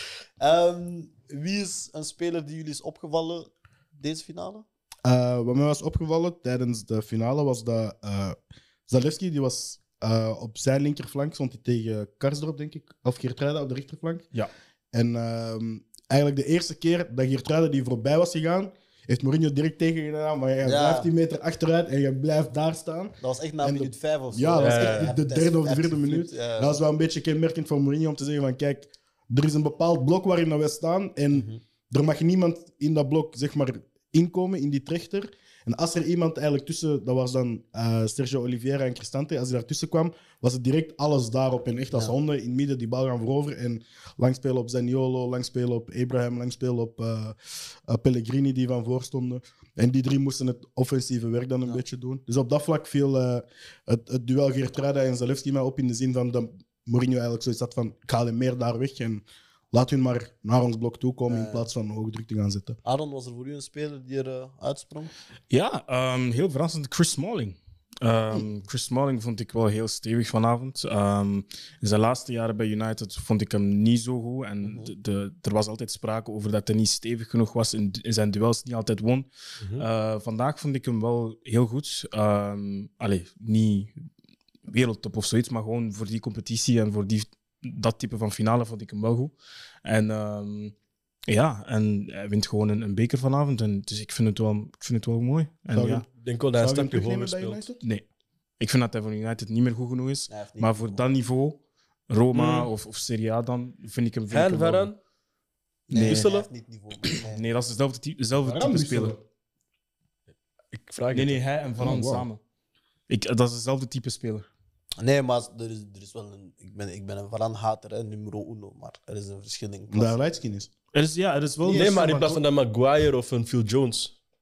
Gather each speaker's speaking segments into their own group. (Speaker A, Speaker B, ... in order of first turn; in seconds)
Speaker A: 0.4-4.7, 20.6-21.1, 23.2-26.8, 31.3-31.6, 61.3-61.7, 62.9-65.1, 74.6-74.9, 100.3-101.0, 105.9-107.4, 115.0-120.2, 121.6-122.1
Speaker B: 5.0-14.3, 14.9-62.8, 95.7-97.8, 108.4-109.2, 111.8-112.3, 119.9-120.7
Speaker C: 24.6-25.1, 79.6-79.9, 96.2-97.7, 102.3-102.7, 104.3-105.0, 105.9-106.5, 110.7-111.4, 121.7-124.1
Speaker D: 65.5-83.9, 84.7-90.7, 91.3-96.0, 98.6-104.9, 105.9-106.3, 107.1-109.2, 111.1-112.4, 113.1-114.5, 120.9-122.4